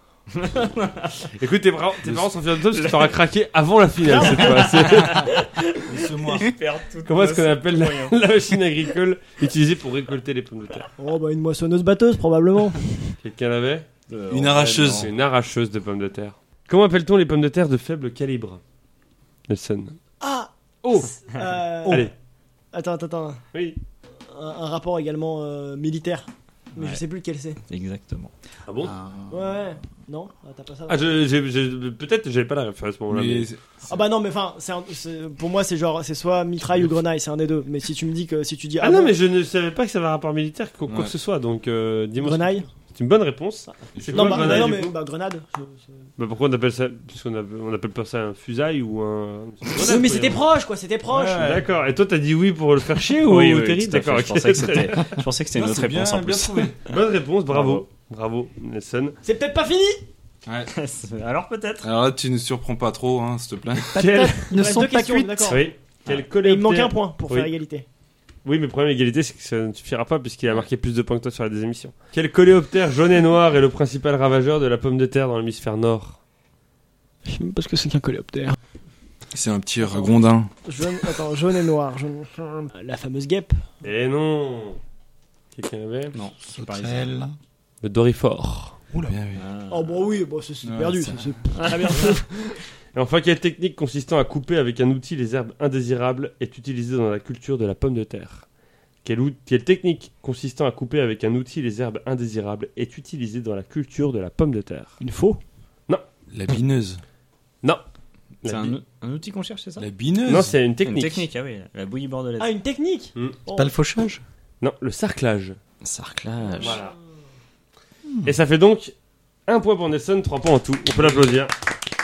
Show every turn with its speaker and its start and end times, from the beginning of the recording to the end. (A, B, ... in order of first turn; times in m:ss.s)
0:00.3-0:01.3 A
0:01.4-0:05.3 B
0:02.0-0:02.3 C
0:02.7-0:03.2 A
0:04.0-0:04.8 D
0:04.1-0:08.2 A
0:05.8-0:06.5 C
0:07.1-0:10.9 B
0:11.0-0:13.1 D
0:13.2-0:13.9 B
0:14.1-0:15.1 A
0:14.3-0:15.1 C
0:14.9-0:18.6 B
0:19.5-0:20.0 B
0:20.2-0:22.1 D
0:20.8-0:21.1 B
0:21.9-0:22.1 B
0:22.7-0:23.4 D
0:24.3-0:27.6 D
0:27.7-0:28.3 A
0:28.7-0:29.0 B
0:28.9-0:29.3 E
0:29.3-0:31.0 D
0:30.9-0:33.5 B
0:33.1-0:34.0 C
0:33.9-0:39.2 D
0:38.8-0:44.9 B
0:40.9-0:41.1 C
0:42.2-0:42.7 D
0:44.0-0:44.8 C
0:44.0-0:45.9 D
0:46.2-0:50.5 B
0:49.7-0:51.6 D
0:51.1-0:51.7 C
0:51.4-0:55.2 B
0:53.2-0:57.0 A
0:55.5-0:56.8 C
0:56.9-0:59.2 B
0:57.5-0:57.8 A
0:59.2-1:00.0 D
1:00.5-1:00.7 C
1:00.7-1:01.9 A
1:01.8-1:03.9 C
1:03.9-1:05.6 E
1:04.0-1:04.5 B
1:04.0-1:05.7 D
1:05.5-1:07.5 B
1:06.4-1:07.8 D
1:08.4-1:16.2 B
1:17.2-1:18.6 D
1:19.3-1:20.5 C
1:19.8-1:20.1 D
1:20.6-1:23.7 D
1:23.8-1:24.8 B
1:25.5-1:26.2 B
1:26.1-1:27.2 A
1:26.5-1:27.4 E
1:27.8-1:28.8 B
1:28.9-1:29.4 C
1:29.4-1:30.0 A
1:29.7-1:32.4 D
1:30.6-1:31.4 C
1:31.6-1:31.9 A
1:32.9-1:38.5 B
1:39.0-1:45.0 B
1:45.0-1:45.4 D
1:46.3-1:47.0 C
1:48.4-1:48.8 B
1:48.5-1:49.9 A
1:49.8-1:50.6 C
1:50.3-1:51.3 B
1:50.8-1:52.6 A
1:52.4-1:53.7 D
1:53.5-1:54.2 E
1:54.6-1:55.6 B
1:55.8-1:56.8 A
1:56.6-1:56.9 B
1:58.2-1:59.0 B
1:59.5-2:01.5 B
2:01.0-2:01.4 C